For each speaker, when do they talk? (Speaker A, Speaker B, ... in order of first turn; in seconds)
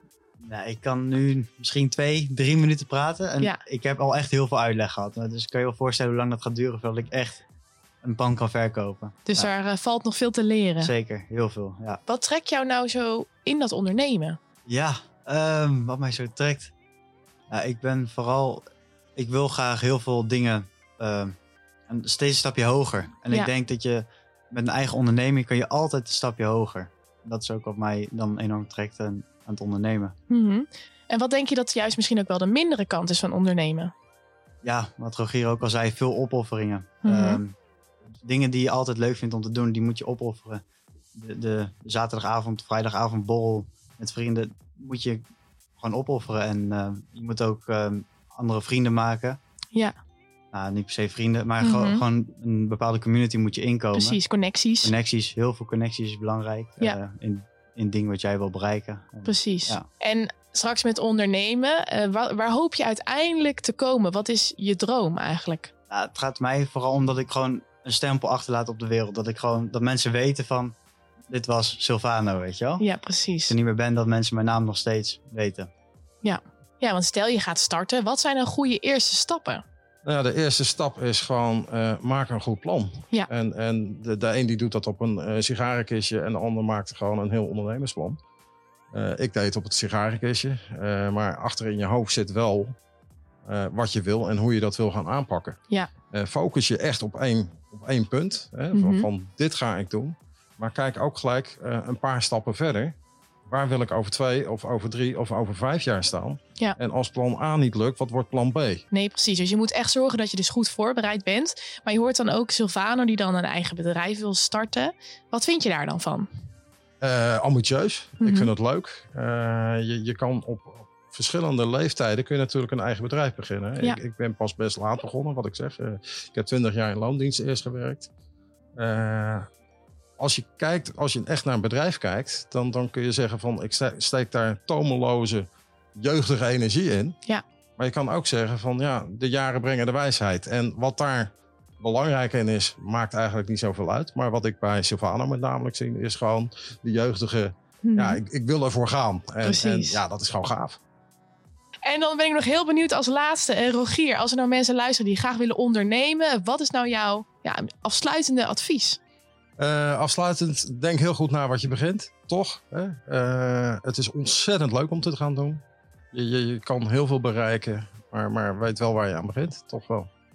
Speaker A: 0.4-7.4, 8.0-9.5, 10.8-12.0, 14.7-16.7, 17.5-18.6, 19.2-21.4, 21.9-30.1, 34.6-37.6, 38.1-40.6, 41.1-45.2, 45.8-49.4, 50.5-54.2, 54.8-59.9, 65.9-70.8, 71.3-72.9, 73.5-75.7
Speaker B: 9.3-10.9, 12.1-14.4, 30.3-33.9, 37.0-37.4, 51.6-52.0, 53.9-54.9, 59.3-65.7, 72.8-73.5, 76.2-79.6, 98.7-99.1, 108.9-116.3, 118.2-118.5, 147.8-148.2, 149.4-150.0, 151.8-159.0
Speaker C: 80.0-88.2, 88.9-92.8, 93.5-95.6, 96.1-103.0, 103.5-108.9, 117.0-128.1, 128.8-129.5, 130.2-137.2, 137.8-150.8, 159.6-170.1